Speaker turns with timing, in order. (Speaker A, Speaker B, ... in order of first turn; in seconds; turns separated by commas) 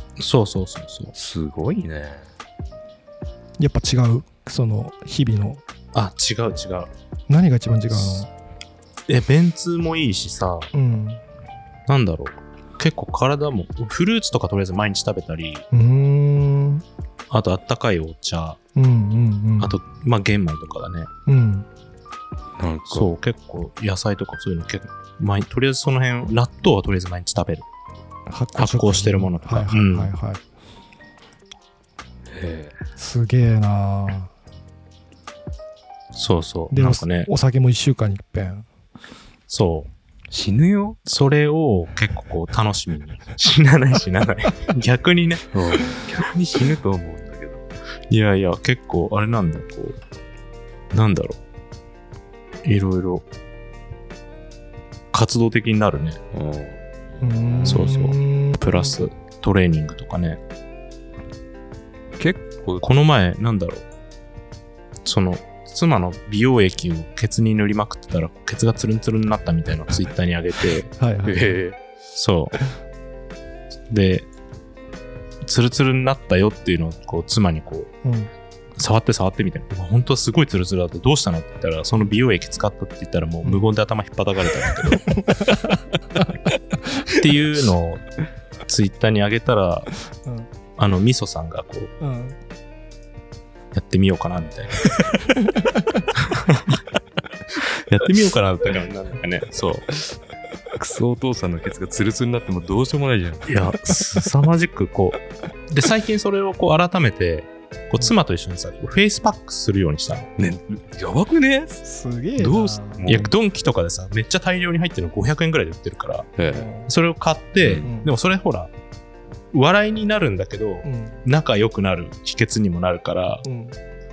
Speaker A: 0.2-1.1, Speaker B: 1.1-2.3, Speaker C: 3.6-5.6, Speaker A: 5.9-6.9, Speaker C: 7.3-8.3, Speaker A: 7.9-8.2, Speaker A: 9.1-10.7, Speaker C: 10.7-11.2, Speaker A: 11.9-15.6, Speaker C: 15.7-16.8, Speaker A: 17.3-18.6, Speaker C: 18.7-19.8, Speaker A: 19.6-21.1, Speaker C: 21.3-21.7, Speaker B: 22.6-23.1, Speaker A: 22.9-27.7, Speaker C: 28.3-30.4, Speaker A: 28.6-30.1, Speaker B: 32.3-32.8, Speaker C: 33.0-34.3, Speaker A: 36.1-37.3, Speaker C: 36.7-38.6, Speaker A: 39.5-39.9, Speaker B: 40.3-41.0, Speaker A: 41.0-45.6, Speaker B: 45.5-47.6, Speaker A: 48.1-50.0, Speaker A: 50.9-51.4, Speaker A: 52.6-53.2, Speaker A: 55.1-56.2, Speaker B: 56.3-57.9, Speaker C: 57.2-59.0, Speaker A: 57.6-60.4, Speaker B: 62.2-62.9, Speaker A: 62.8-63.8, Speaker A: 65.0-70.9, Speaker C: 71.0-71.6, Speaker B: 71.2-71.8, Speaker A: 72.1-72.6, Speaker A: 73.9-74.3, Speaker A: 75.4-77.9, Speaker C: 78.0-78.3, Speaker A: 78.8-85.1, Speaker A: 87.1-88.0, Speaker A: 88.7-89.9, Speaker A: 90.8-91.9, Speaker C: 92.0-92.4, Speaker A: 93.7-95.1, Speaker C: 95.5-95.8, Speaker A: 96.3-96.7, Speaker A: 97.8-99.9, Speaker B: 100.8-103.5, Speaker A: 103.5-110.3, Speaker B: 110.4-111.8, Speaker C: 111.8-113.0, Speaker B: 112.4-113.3, Speaker A: 113.0-116.3, Speaker B: 116.4-116.7, Speaker C: 116.5-116.9, Speaker A: 116.9-118.7, Speaker B: 117.6-117.9, Speaker C: 117.8-118.1, Speaker A: 119.5-123.4, Speaker C: 120.8-121.2, Speaker C: 123.4-123.8